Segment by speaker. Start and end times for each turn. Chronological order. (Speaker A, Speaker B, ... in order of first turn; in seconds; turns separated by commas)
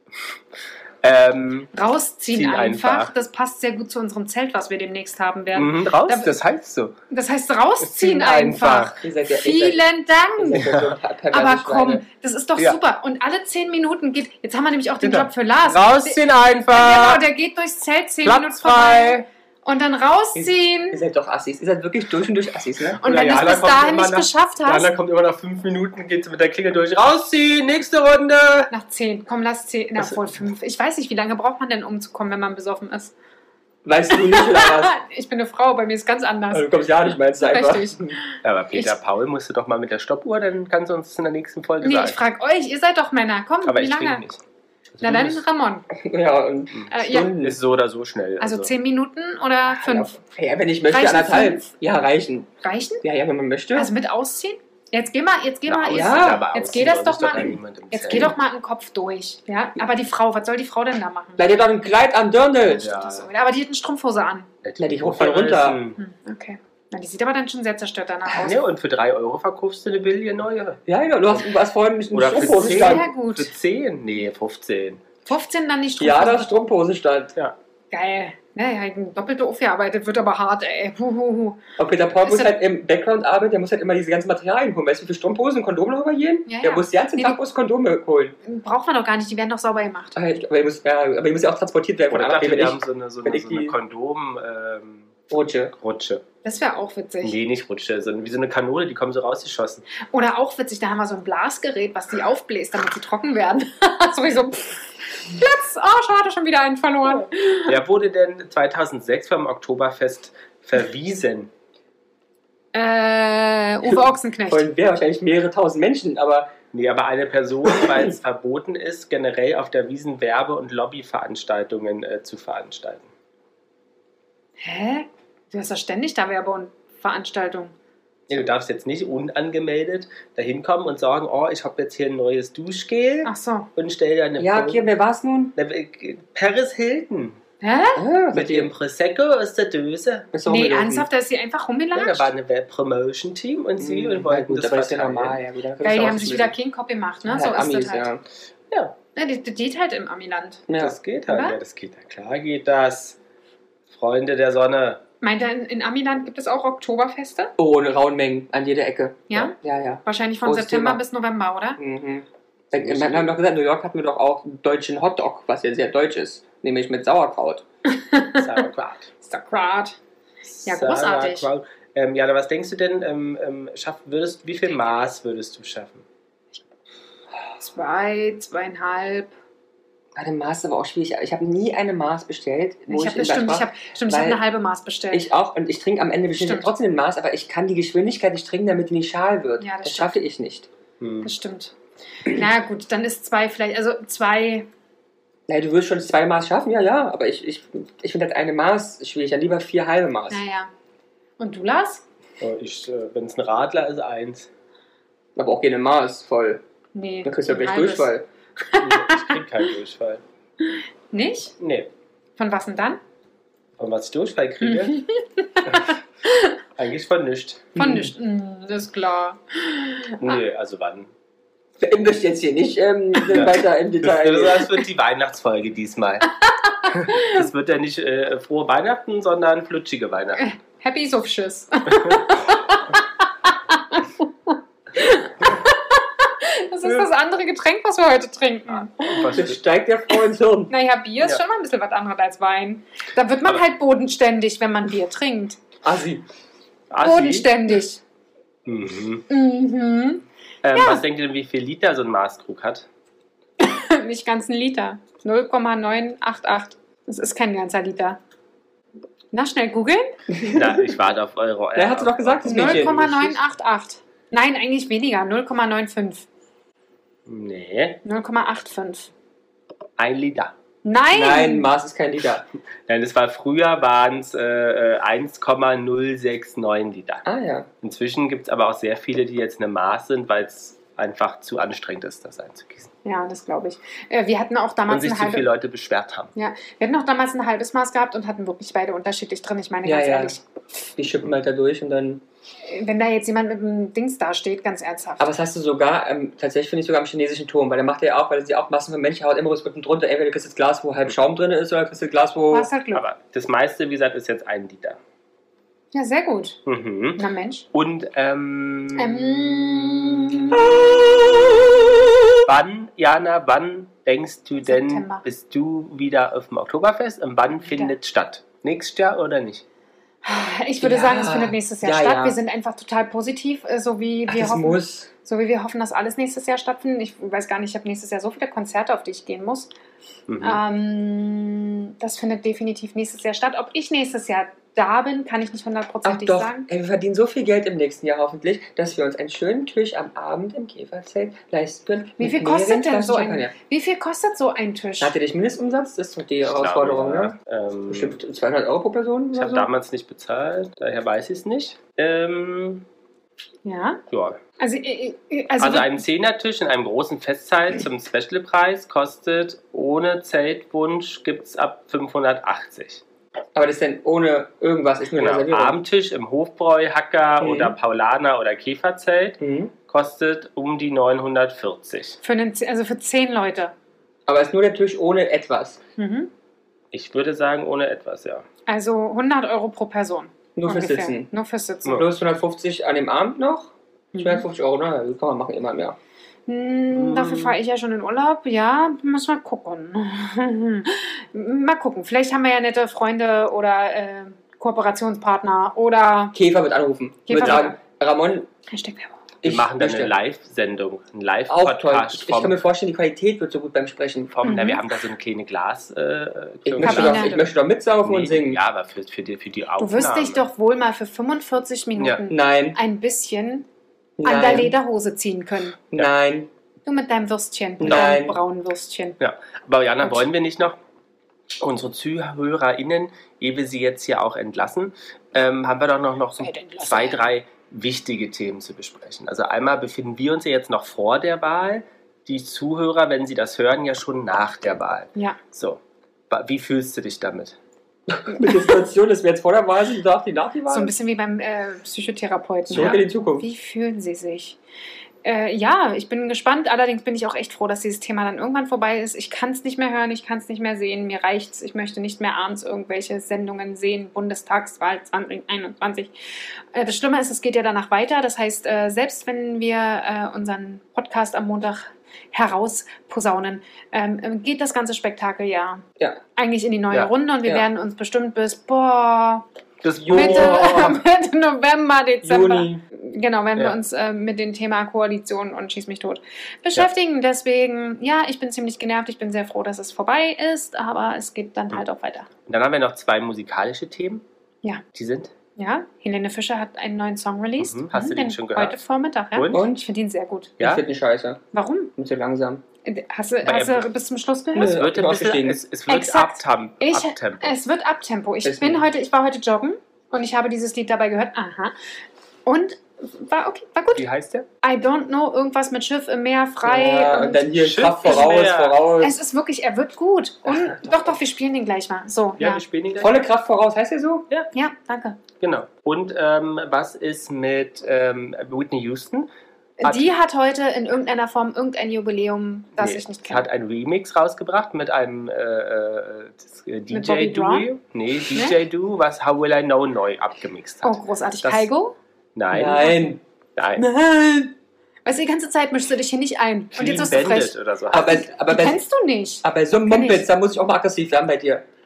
Speaker A: 1.0-1.7, Speaker B: 1.7-6.4, Speaker A: 2.3-3.1, Speaker A: 5.5-7.0, Speaker B: 7.1-10.7, Speaker A: 7.8-9.0, Speaker C: 9.0-9.8, Speaker C: 10.4-12.0, Speaker A: 10.5-10.9, Speaker B: 11.3-21.0, Speaker A: 15.0-17.2, Speaker A: 18.2-19.2, Speaker C: 20.4-23.0, Speaker B: 23.0-24.9, Speaker A: 23.0-28.7, Speaker B: 28.7-33.1, Speaker C: 33.8-35.0, Speaker B: 34.1-36.7, Speaker C: 36.5-38.2, Speaker B: 37.4-38.9, Speaker A: 38.4-42.2, Speaker B: 41.8-44.2, Speaker A: 43.6-44.4, Speaker A: 45.0-45.4, Speaker B: 45.0-45.9, Speaker C: 45.9-47.6, Speaker B: 46.9-47.3, Speaker A: 47.4-48.7, Speaker B: 48.4-50.1, Speaker C: 49.7-52.5, Speaker B: 50.9-51.7, Speaker B: 52.6-53.0, Speaker C: 53.0-53.9, Speaker B: 53.7-61.4, Speaker A: 55.6-58.3, Speaker C: 55.9-56.5, Speaker C: 61.4-62.9, Speaker B: 62.7-64.5, Speaker A: 62.8-63.3, Speaker A: 64.6-66.0, Speaker C: 64.8-65.8, Speaker B: 66.0-68.6, Speaker A: 68.3-70.8, Speaker C: 70.9-73.1, Speaker A: 72.1-75.0, Speaker B: 72.3-73.5, Speaker B: 75.2-76.6, Speaker C: 76.0-77.3, Speaker B: 77.9-81.6, Speaker C: 81.8-88.4, Speaker B: 82.2-82.5, Speaker B: 86.5-87.4, Speaker B: 88.4-90.2, Speaker C: 90.2-93.7, Speaker A: 92.1-95.1, Speaker C: 95.3-95.7, Speaker A: 95.8-96.2, Speaker B: 96.4-97.3, Speaker A: 97.2-99.8, Speaker B: 100.1-107.8, Speaker A: 107.7-111.5, Speaker B: 112.7-114.7, Speaker C: 114.5-116.5, Speaker A: 116.7-123.1, Speaker B: 124.6-127.7, Speaker A: 128.3-134.9, Speaker B: 133.2-133.7, Speaker C: 134.4-135.5, Speaker A: 135.6-137.4, Speaker B: 137.6-138.0, Speaker C: 138.0-138.7, Speaker A: 138.3-140.3, Speaker C: 140.3-141.1, Speaker B: 140.4-142.3, Speaker A: 141.9-145.4, Speaker C: 143.8-146.5, Speaker B: 145.8-148.1, Speaker C: 147.2-148.2, Speaker B: 149.1-150.6, Speaker C: 150.7-150.9, Speaker A: 150.8-153.2, Speaker B: 151.3-151.6, Speaker A: 153.9-155.0, Speaker B: 155.2-157.5, Speaker C: 157.6-161.0, Speaker B: 159.3-161.8, Speaker C: 161.8-167.6, Speaker A: 162.7-163.3, Speaker B: 167.9-168.5, Speaker A: 168.4-169.1, Speaker B: 169.2-170.0, Speaker A: 170.5-176.0, Speaker B: 170.6-171.5, Speaker B: 174.6-175.0, Speaker B: 177.6-179.3, Speaker C: 180.2-184.4, Speaker B: 182.9-185.2, Speaker C: 185.1-190.7, Speaker B: 186.3-186.7, Speaker B: 189.6-190.2, Speaker A: 191.0-191.3, Speaker B: 191.2-194.7, Speaker C: 195.5-200.4, Speaker B: 200.3-200.7, Speaker B: 201.4-202.0, Speaker A: 202.4-204.5, Speaker C: 205.3-206.6, Speaker B: 206.9-209.4, Speaker C: 207.2-208.2, Speaker A: 208.8-210.2, Speaker B: 210.7-211.6, Speaker A: 211.6-211.9, Speaker B: 212.4-213.0, Speaker A: 213.8-215.0, Speaker B: 214.6-216.5, Speaker A: 215.6-215.9, Speaker A: 216.8-217.9, Speaker B: 217.8-220.4, Speaker C: 217.8-218.1, Speaker A: 220.2-221.1, Speaker C: 221.8-224.7, Speaker A: 223.3-226.3, Speaker B: 226.8-227.3, Speaker A: 226.9-230.5, Speaker B: 230.4-239.5, Speaker A: 238.9-239.6, Speaker C: 239.3-240.7, Speaker B: 240.7-245.6, Speaker C: 245.8-246.2, Speaker A: 246.9-247.5, Speaker B: 247.0-248.0, Speaker A: 248.7-249.2, Speaker B: 249.3-251.0, Speaker A: 250.6-252.9, Speaker B: 253.6-258.2, Speaker B: 259.3-260.2, Speaker C: 260.3-260.8, Speaker A: 260.5-263.1, Speaker C: 261.8-263.3, Speaker B: 262.4-266.2, Speaker A: 267.2-268.0, Speaker B: 268.0-269.1, Speaker A: 270.0-270.5, Speaker B: 270.8-271.7, Speaker C: 271.1-272.5, Speaker A: 272.9-277.2, Speaker C: 277.2-277.7, Speaker A: 277.8-282.9, Speaker B: 283.0-285.5, Speaker A: 284.9-286.3, Speaker B: 286.3-290.4, Speaker C: 289.8-290.4, Speaker C: 291.0-292.2, Speaker B: 292.6-295.3, Speaker C: 295.2-302.7, Speaker B: 302.5-303.0, Speaker A: 302.9-305.0, Speaker B: 305.9-306.6, Speaker A: 306.6-310.9, Speaker B: 307.1-307.7, Speaker B: 308.9-310.6, Speaker C: 310.6-311.8, Speaker A: 312.4-319.6, Speaker B: 314.6-315.2, Speaker B: 317.6-317.9, Speaker B: 320.2-329.7, Speaker C: 320.8-322.4, Speaker C: 324.3-325.1, Speaker A: 330.3-330.6, Speaker B: 330.4-336.7, Speaker C: 336.0-343.5, Speaker B: 342.2-345.1, Speaker C: 345.0-347.3, Speaker A: 346.4-348.2, Speaker C: 347.9-349.7, Speaker A: 349.3-352.9, Speaker B: 353.6-354.0, Speaker A: 354.1-354.4, Speaker B: 354.6-356.0, Speaker A: 355.6-363.0, Speaker C: 363.6-365.8, Speaker A: 365.1-372.2, Speaker C: 367.4-367.7, Speaker C: 369.4-369.7, Speaker B: 372.2-373.7, Speaker C: 374.3-375.8, Speaker B: 376.0-376.3, Speaker A: 376.9-378.4, Speaker B: 378.7-382.0, Speaker C: 380.6-381.3, Speaker C: 381.9-386.0, Speaker B: 384.1-384.4, Speaker B: 386.5-396.3, Speaker A: 386.9-387.6, Speaker C: 396.3-398.5, Speaker B: 397.3-397.8, Speaker B: 398.7-399.2, Speaker C: 399.4-400.1, Speaker A: 399.4-402.6, Speaker C: 401.5-404.3, Speaker A: 404.3-407.4, Speaker B: 404.4-404.8, Speaker C: 406.6-408.6, Speaker B: 406.8-407.5, Speaker A: 408.0-410.4, Speaker B: 409.8-413.7, Speaker A: 412.0-412.2, Speaker C: 412.3-412.8, Speaker C: 414.2-414.7, Speaker B: 414.2-415.8, Speaker C: 415.9-416.5, Speaker B: 416.9-419.2, Speaker C: 417.8-418.4, Speaker A: 417.8-418.1, Speaker A: 419.2-420.8, Speaker A: 421.6-437.6, Speaker B: 426.4-427.2, Speaker C: 438.1-440.9, Speaker B: 440.7-444.6, Speaker C: 442.7-443.5, Speaker A: 442.7-443.0, Speaker B: 445.2-456.1, Speaker B: 456.7-465.8, Speaker B: 466.4-469.4, Speaker A: 469.8-471.0, Speaker C: 470.0-470.7, Speaker B: 470.1-482.3, Speaker C: 472.2-472.8, Speaker A: 482.5-484.2, Speaker A: 484.9-485.3, Speaker B: 485.6-490.6, Speaker A: 487.6-488.8, Speaker A: 489.3-489.6, Speaker C: 489.5-489.9, Speaker C: 490.6-491.4, Speaker B: 491.5-491.9, Speaker C: 492.0-492.6, Speaker B: 492.8-494.8, Speaker A: 493.4-493.9, Speaker C: 494.5-495.6, Speaker A: 494.5-497.6, Speaker B: 495.9-501.7, Speaker C: 498.4-498.8, Speaker B: 502.4-504.1, Speaker A: 503.9-504.4, Speaker B: 504.6-507.5, Speaker C: 506.6-509.1, Speaker A: 507.5-508.8, Speaker B: 509.0-512.6, Speaker A: 512.4-513.2, Speaker C: 513.0-514.3, Speaker B: 514.5-515.2, Speaker A: 515.4-519.3, Speaker B: 519.8-523.4, Speaker A: 519.8-520.1, Speaker A: 522.8-531.7, Speaker B: 526.9-527.7, Speaker B: 530.8-532.0, Speaker A: 532.3-533.0, Speaker C: 532.5-533.2, Speaker B: 532.7-533.2, Speaker A: 533.5-533.8, Speaker C: 533.8-534.5, Speaker B: 535.0-540.3, Speaker A: 536.7-538.2, Speaker C: 537.9-538.8, Speaker C: 539.4-541.6